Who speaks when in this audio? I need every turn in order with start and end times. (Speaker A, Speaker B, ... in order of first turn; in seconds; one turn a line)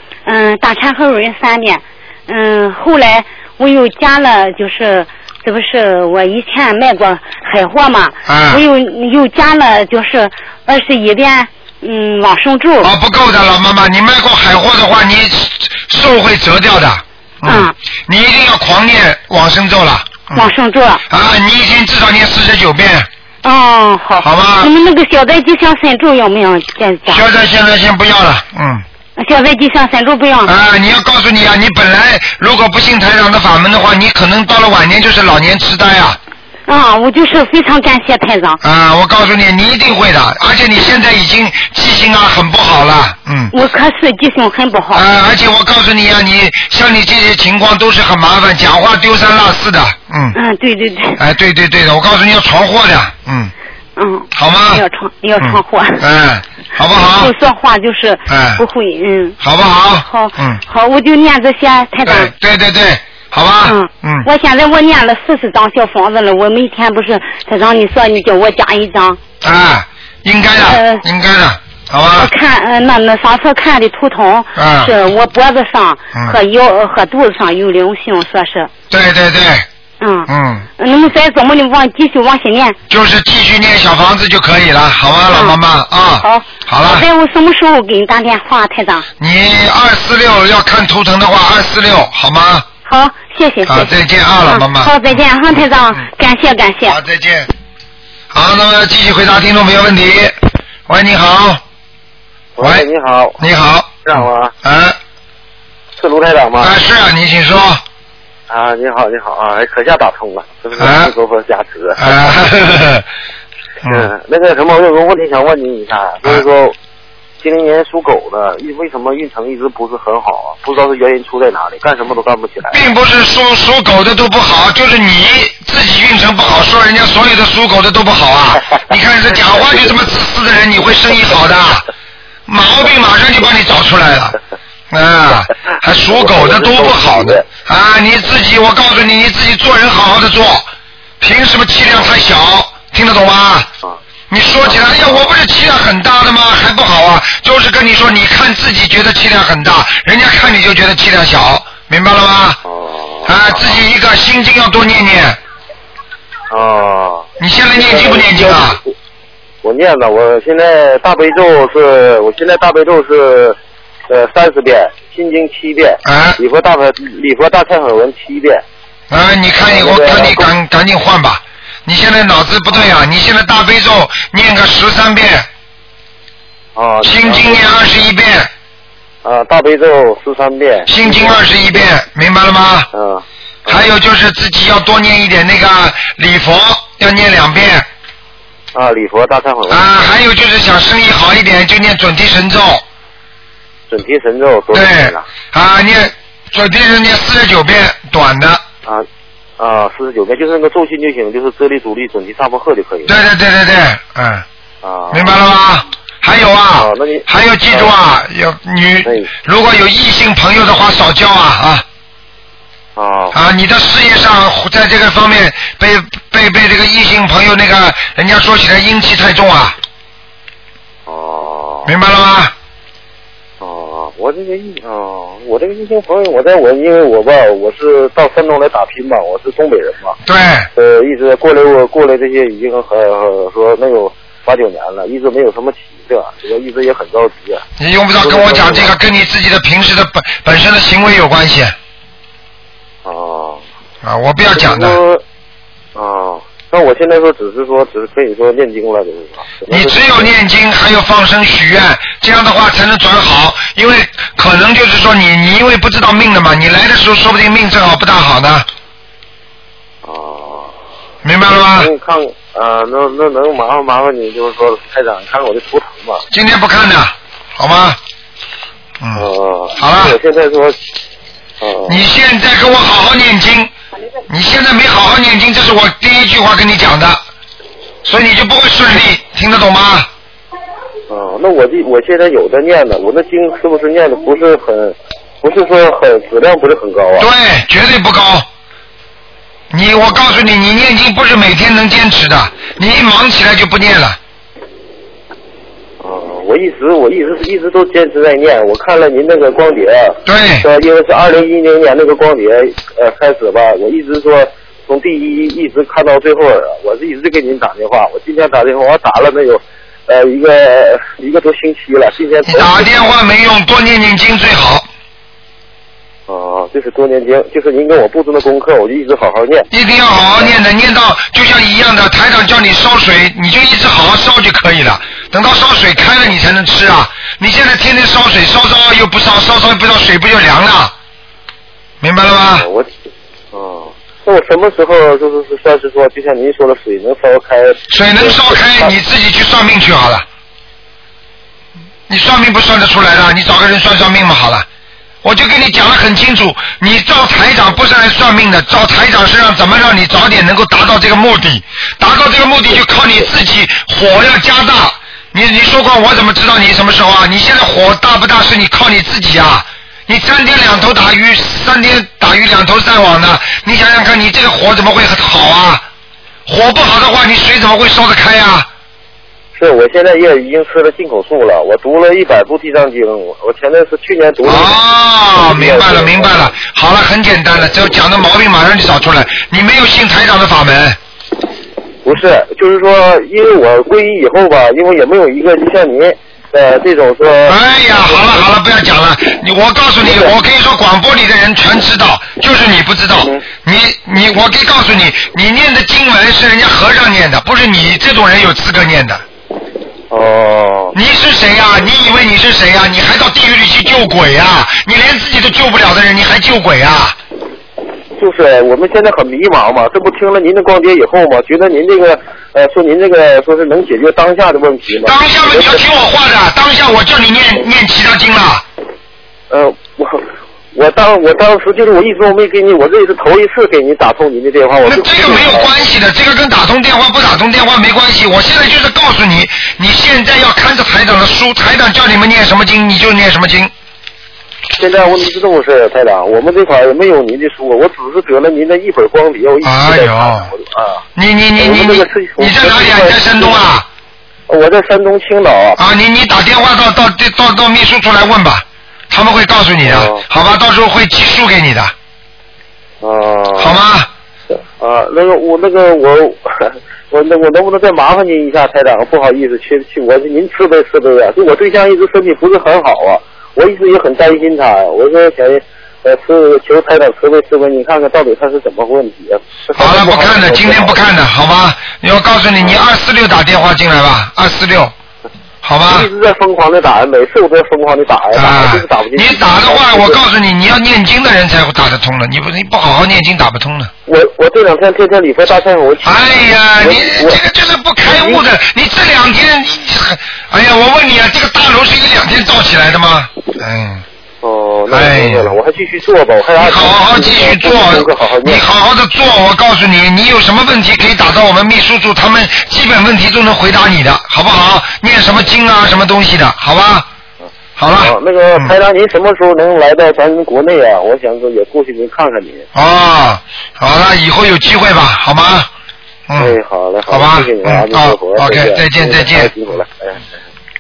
Speaker A: 0.3-12.9
Speaker B: 8.3-8.6
Speaker B: 12.8-20.5
Speaker A: 17.4-17.8
Speaker A: 20.3-21.0
Speaker B: 21.1-23.1
Speaker A: 23.4-27.2
Speaker B: 24.2-24.7
Speaker B: 27.1-28.8
Speaker A: 29.2-30.5
Speaker B: 30.4-36.2
Speaker A: 36.7-38.6
Speaker B: 38.6-43.5
Speaker A: 43.5-45.1
Speaker B: 44.9-50.4
Speaker A: 50.3-51.2
Speaker B: 51.2-53.5
Speaker A: 54.0-56.0
Speaker B: 54.3-54.8
Speaker B: 55.4-57.3
Speaker A: 57.0-59.4
Speaker B: 58.3-58.6
Speaker B: 59.4-60.6
Speaker A: 60.0-62.3
Speaker B: 62.0-64.3
Speaker A: 63.6-69.2
Speaker B: 69.4-72.3
Speaker A: 70.5-71.0
Speaker A: 72.1-78.7
Speaker B: 74.6-74.9
Speaker B: 78.9-79.7
Speaker A: 80.0-82.8
Speaker B: 80.3-80.7
Speaker B: 82.9-87.1
Speaker A: 85.3-85.6
Speaker A: 86.1-89.1
Speaker B: 89.2-92.7
Speaker A: 92.8-97.0
Speaker B: 93.7-95.0
Speaker B: 96.9-97.5
Speaker B: 98.3-100.4
Speaker B: 100.9-101.6
Speaker C: 102.6-103.4
Speaker B: 102.6-102.9
Speaker B: 103.4-105.0
Speaker C: 104.0-104.5
Speaker C: 106.0-106.8
Speaker B: 106.6-107.8
Speaker C: 108.5-112.4
Speaker B: 110.8-111.1
Speaker B: 112.0-113.0
Speaker B: 113.8-114.1
Speaker C: 113.9-116.8
Speaker C: 117.4-122.8
Speaker B: 122.7-131.8
Speaker B: 132.5-134.4
Speaker B: 134.9-140.7
Speaker C: 136.1-137.5
Speaker B: 141.2-143.7
Speaker B: 144.3-152.6
Speaker C: 144.7-145.3
Speaker C: 152.7-153.8
Speaker B: 153.3-155.4
Speaker C: 156.5-158.9
Speaker B: 157.4-158.8
Speaker C: 159.6-163.6
Speaker C: 164.1-168.6
Speaker B: 166.1-166.4
Speaker B: 169.1-175.5
Speaker C: 169.6-170.5
Speaker C: 176.8-177.8
Speaker B: 177.0-178.5
Speaker C: 179.2-181.9
Speaker B: 180.9-182.9
Speaker C: 182.9-183.9
Speaker B: 183.7-187.9
Speaker C: 188.7-190.2
Speaker B: 189.7-192.8
Speaker C: 193.9-195.3
Speaker B: 194.7-198.6
Speaker C: 199.6-203.1
Speaker B: 203.1-204.4
Speaker C: 204.8-205.4
Speaker B: 205.1-211.8
Speaker C: 206.8-207.9
Speaker C: 209.1-209.3
Speaker C: 213.0-213.4
Speaker B: 213.3-219.8
Speaker C: 221.1-221.9
Speaker B: 221.9-222.5
Speaker C: 223.6-230.2
Speaker B: 230.2-230.7
Speaker C: 230.8-237.6
Speaker B: 237.8-241.7
Speaker C: 238.2-239.0
Speaker C: 243.1-243.6
Speaker B: 244.0-245.0
Speaker C: 244.5-245.2
Speaker C: 245.9-250.3
Speaker B: 249.7-258.7
Speaker C: 260.1-260.7
Speaker B: 261.2-261.9
Speaker C: 261.7-266.2
Speaker B: 266.3-268.0
Speaker B: 269.0-270.2
Speaker C: 269.2-270.8
Speaker C: 271.6-272.0
Speaker B: 271.9-273.7
Speaker B: 274.3-277.2
Speaker B: 278.0-280.1
Speaker C: 281.1-287.3
Speaker B: 287.2-288.5
Speaker B: 289.7-294.2
Speaker C: 296.0-312.9
Speaker B: 300.3-300.7
Speaker B: 312.5-314.9
Speaker C: 316.3-319.7
Speaker B: 319.7-330.9
Speaker B: 332.0-332.7
Speaker C: 332.5-332.9
Speaker C: 333.5-338.9
Speaker B: 337.9-340.2
Speaker B: 342.1-344.7
Speaker B: 345.2-365.8
Speaker C: 352.7-353.3
Speaker B: 366.5-368.7
Speaker C: 369.6-374.8
Speaker B: 374.4-381.0
Speaker C: 375.4-376.5
Speaker C: 382.1-388.5
Speaker B: 387.5-399.2
Speaker C: 390.0-390.4
Speaker C: 400.1-401.0
Speaker B: 400.9-407.2
Speaker C: 408.2-415.8
Speaker B: 415.0-418.6
Speaker C: 419.5-420.2
Speaker C: 420.7-425.7
Speaker B: 424.9-433.7
Speaker C: 434.8-441.0
Speaker B: 439.6-440.5
Speaker B: 441.2-443.9
Speaker C: 441.6-443.6
Speaker C: 444.5-445.8
Speaker B: 445.8-451.9
Speaker C: 449.8-450.2
Speaker C: 453.0-453.8
Speaker B: 453.6-454.1
Speaker C: 454.7-471.1
Speaker B: 469.8-474.9
Speaker C: 472.6-472.9
Speaker B: 475.6-476.1
Speaker C: 475.9-480.2
Speaker B: 478.3-483.9
Speaker C: 484.1-487.4
Speaker B: 486.1-494.0
Speaker C: 488.0-488.5
Speaker C: 494.4-498.7
Speaker B: 494.9-495.6
Speaker B: 496.6-507.1
Speaker B: 507.8-508.7
Speaker C: 508.0-512.7
Speaker B: 512.7-515.7
Speaker B: 516.3-516.5
Speaker C: 516.4-520.2
Speaker B: 517.1-519.5